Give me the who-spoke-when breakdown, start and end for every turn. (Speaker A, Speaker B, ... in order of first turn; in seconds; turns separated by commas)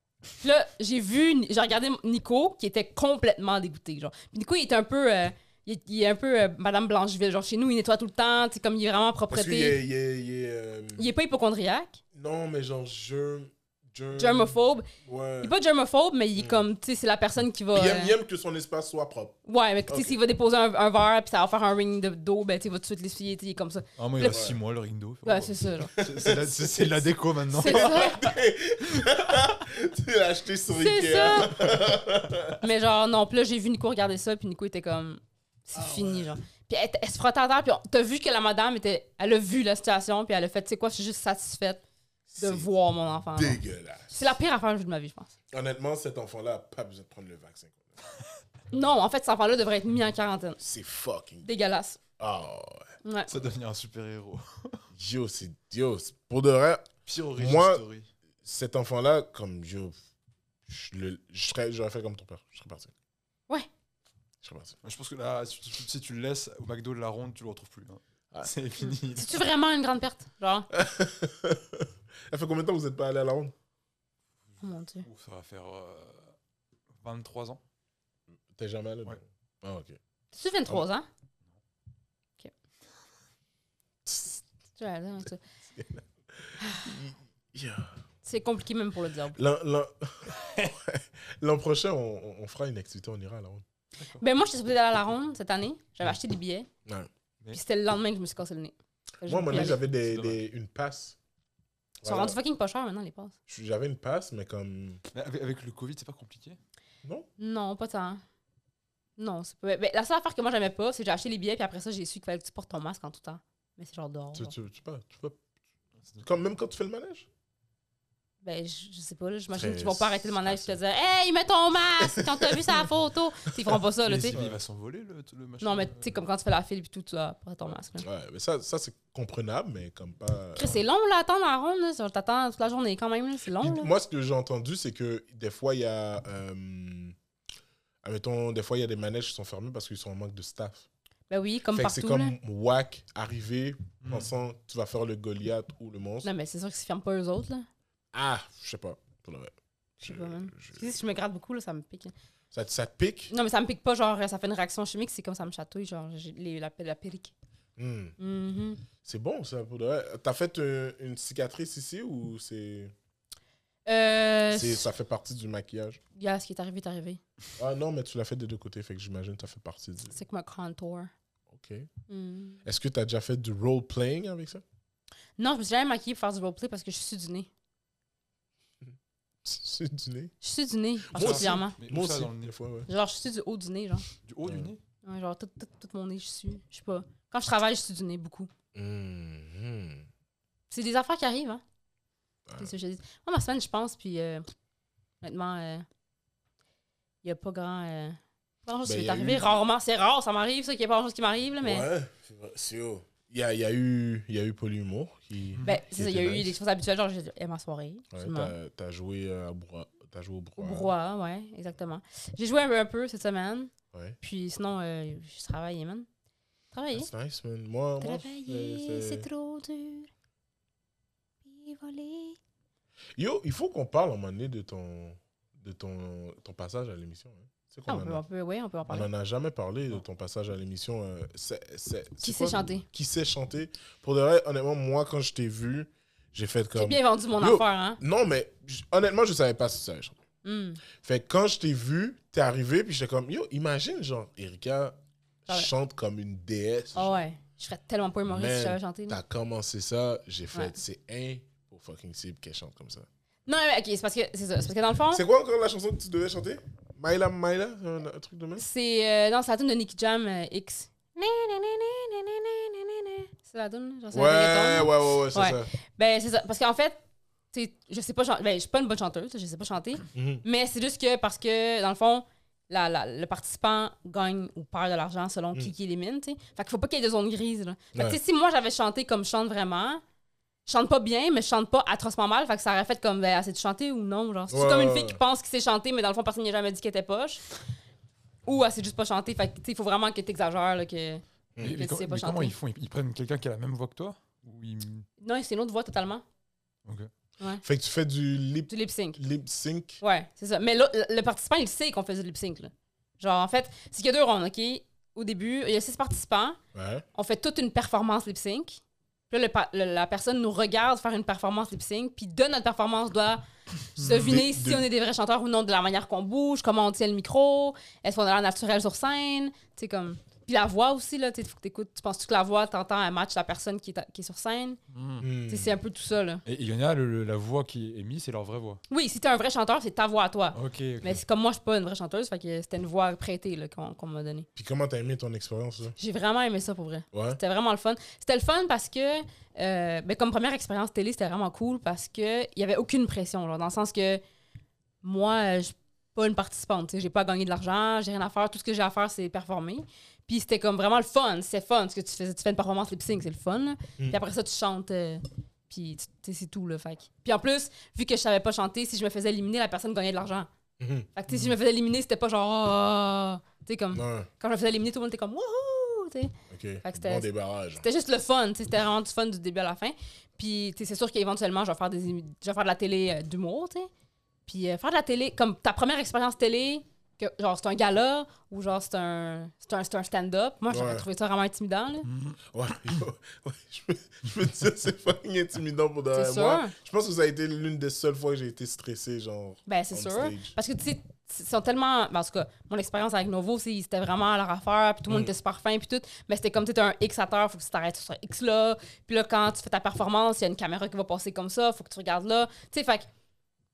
Speaker A: 0.4-9.8, Speaker B: 9.3-11.1, Speaker A: 11.0-12.0, Speaker B: 12.1-15.5, Speaker A: 14.2-14.9, Speaker A: 15.4-18.1, Speaker B: 16.4-16.6, Speaker B: 17.7-20.2, Speaker A: 19.5-24.5, Speaker C: 24.0-28.1, Speaker B: 24.3-24.6, Speaker A: 25.2-25.9, Speaker B: 26.0-32.6, Speaker A: 27.5-28.3, Speaker A: 30.7-31.6, Speaker A: 32.6-41.8, Speaker B: 35.8-36.3, Speaker B: 42.3-42.7, Speaker A: 42.4-45.3, Speaker B: 43.4-44.4, Speaker B: 45.5-47.9, Speaker A: 48.7-50.6, Speaker B: 50.6-51.5, Speaker A: 51.4-52.0, Speaker B: 52.2-52.9, Speaker A: 53.0-53.3, Speaker C: 53.3-54.8, Speaker B: 54.9-57.8, Speaker C: 57.1-58.1, Speaker B: 58.4-59.9, Speaker B: 60.7-62.9, Speaker B: 64.4-64.8, Speaker C: 64.8-69.5, Speaker A: 68.8-70.7, Speaker B: 70.7-73.5, Speaker A: 74.6-75.1, Speaker C: 75.0-76.3, Speaker C: 77.0-77.6, Speaker B: 78.5-80.0, Speaker A: 80.3-81.0, Speaker B: 84.1-84.4, Speaker A: 84.8-85.4, Speaker B: 85.7-88.0, Speaker A: 86.6-87.0, Speaker A: 88.2-89.4, Speaker B: 89.3-93.6, Speaker A: 94.2-96.7, Speaker A: 97.5-99.8, Speaker B: 99.2-101.2, Speaker C: 99.5-100.4, Speaker B: 102.0-102.4, Speaker A: 102.0-103.3, Speaker B: 103.5-105.0, Speaker C: 105.1-106.6, Speaker A: 107.4-108.2, Speaker A: 109.2-114.5, Speaker B: 114.3-115.4, Speaker B: 116.2-117.3, Speaker A: 118.4-124.4, Speaker B: 119.5-120.8, Speaker B: 122.0-122.9, Speaker C: 124.0-126.2, Speaker B: 124.3-124.6, Speaker A: 125.6-128.1, Speaker B: 128.0-130.8, Speaker A: 130.6-133.9, Speaker B: 133.6-137.2, Speaker B: 138.0-140.9, Speaker A: 141.3-142.3, Speaker B: 141.7-146.3, Speaker C: 144.0-144.3, Speaker A: 146.2-147.7, Speaker B: 148.1-151.0, Speaker A: 150.0-152.1, Speaker B: 152.5-153.3, Speaker A: 153.3-157.3, Speaker B: 157.8-158.2, Speaker A: 158.2-158.8, Speaker B: 159.0-162.9, Speaker A: 163.9-164.9, Speaker B: 164.5-166.0, Speaker A: 166.2-167.2, Speaker B: 167.6-170.2, Speaker A: 170.1-171.1, Speaker B: 171.5-171.9, Speaker A: 172.1-172.6, Speaker B: 172.6-174.6, Speaker A: 175.4-177.5, Speaker B: 179.4-180.3, Speaker A: 180.4-181.8, Speaker B: 181.1-182.9, Speaker C: 181.2-182.5, Speaker A: 182.9-184.1, Speaker C: 184.2-184.8, Speaker B: 184.4-184.7, Speaker A: 185.0-188.5, Speaker B: 188.7-190.1, Speaker A: 190.7-191.6, Speaker B: 192.5-192.7, Speaker A: 192.6-194.5, Speaker A: 195.2-195.9, Speaker A: 197.2-201.9, Speaker B: 198.8-199.6, Speaker B: 201.6-206.6, Speaker A: 205.6-208.5, Speaker B: 208.1-210.9, Speaker A: 210.6-216.1, Speaker A: 216.7-217.1, Speaker B: 216.9-219.3, Speaker A: 218.0-220.1, Speaker A: 221.4-222.4, Speaker B: 223.2-228.2, Speaker A: 227.9-229.1, Speaker B: 228.9-240.2, Speaker A: 232.2-232.8, Speaker A: 236.8-238.0, Speaker A: 240.4-240.8, Speaker B: 241.0-245.0, Speaker B: 245.5-247.2, Speaker A: 246.9-249.2, Speaker B: 248.3-253.1, Speaker A: 253.5-255.2, Speaker B: 255.1-258.7, Speaker A: 258.6-267.0, Speaker B: 264.1-265.7, Speaker A: 267.5-280.0, Speaker B: 270.1-270.4, Speaker B: 277.9-278.2, Speaker A: 280.7-287.4, Speaker B: 284.5-285.2, Speaker A: 288.4-292.6, Speaker C: 291.6-295.1, Speaker A: 295.2-296.2, Speaker C: 296.9-297.1, Speaker B: 297.6-300.0, Speaker A: 298.7-299.2, Speaker A: 300.0-306.6, Speaker B: 306.7-307.1, Speaker A: 307.1-313.4, Speaker C: 314.0-314.4, Speaker A: 314.0-324.8, Speaker B: 314.2-314.9, Speaker C: 324.9-325.3, Speaker B: 325.2-325.8, Speaker A: 325.5-326.4, Speaker C: 326.4-328.8, Speaker A: 328.9-334.5, Speaker C: 330.6-331.2, Speaker B: 334.6-335.9, Speaker A: 336.0-344.2, Speaker B: 337.1-337.4, Speaker A: 345.0-360.5, Speaker B: 360.8-361.1, Speaker A: 361.1-373.9, Speaker B: 363.9-364.3, Speaker B: 366.5-367.9, Speaker A: 374.5-382.1, Speaker B: 380.7-381.1, Speaker C: 382.1-382.4, Speaker B: 382.5-390.6, Speaker A: 386.1-386.7, Speaker A: 389.7-403.1